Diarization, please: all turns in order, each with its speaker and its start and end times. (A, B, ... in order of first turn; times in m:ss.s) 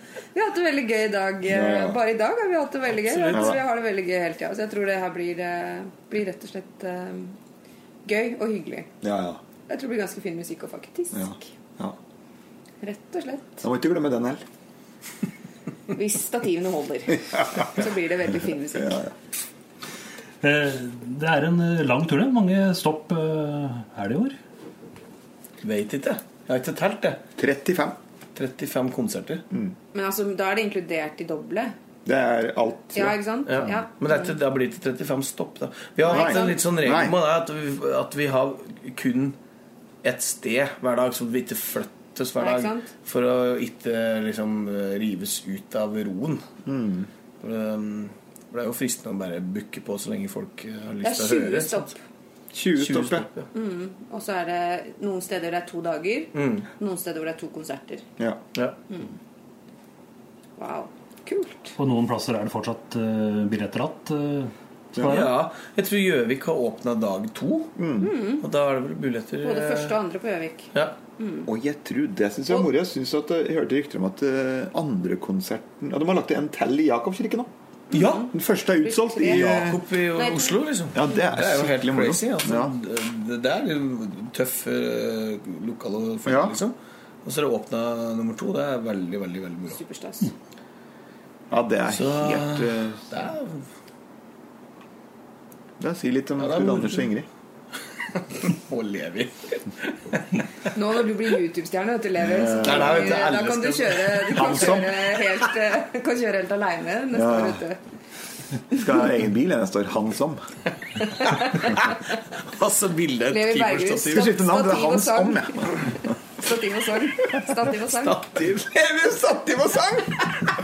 0:00.3-0:07.4 A
0:01.5-0:02.0 B
0:03.0-0:03.6 C
0:03.3-0:03.6 B
0:08.0-0:08.9 A
0:09.0-0:09.4 B
0:09.7-0:11.5 A
0:11.1-0:12.0 B
0:12.8-0:13.7 A
0:13.6-0:14.4 B
0:15.9-0:19.0 A
0:17.4-0:17.7 B
0:18.8-0:19.1 B
0:20.4-0:24.4 D
0:25.6-0:27.2 C
0:27.4-0:28.0 B
0:28.4-0:29.4 C
0:29.9-0:31.7 A
0:32.1-0:33.2 B
0:32.9-0:34.3 A
0:33.5-0:39.4 C
0:36.0-0:36.6 A
0:36.1-0:37.2 B
0:40.0-0:46.4 C
0:42.4-0:42.9 A
0:46.7-0:47.1 B
0:47.4-0:51.9 C
0:51.0-0:52.0 A
0:52.5-0:53.3 B
0:52.8-0:53.5 C
0:53.5-0:58.1 A
0:56.3-0:56.7 C
0:58.9-0:59.2 A
1:00.6-1:01.8 A
1:01.8-1:05.3 D
1:04.9-1:05.3 B
1:05.0-1:07.7 C
1:07.8-1:08.1 B
1:08.0-1:08.4 A
1:08.4-1:10.0 C
1:09.4-1:11.5 A
1:11.5-1:17.5 B
1:17.9-1:20.6 A
1:17.9-1:18.3 C
1:18.2-1:19.8 B
1:19.2-1:29.8 C
1:20.9-1:22.8 B
1:26.2-1:26.6 B
1:29.7-1:30.3 A
1:31.5-1:33.1 B
1:31.9-1:33.7 C
1:35.8-1:37.3 B
1:36.4-1:37.1 C
1:38.1-1:40.4 C
1:40.7-1:47.8 A
1:42.2-1:43.3 B
1:42.6-1:45.5 C
1:44.4-1:44.8 B
1:47.1-1:47.6 B
1:48.7-1:50.4 B
1:51.2-1:51.9 C
1:51.3-1:52.0 A
1:52.5-1:54.3 C
1:53.3-1:58.2 A
1:54.1-1:56.1 B
1:57.8-1:58.9 C
1:58.6-2:00.3 B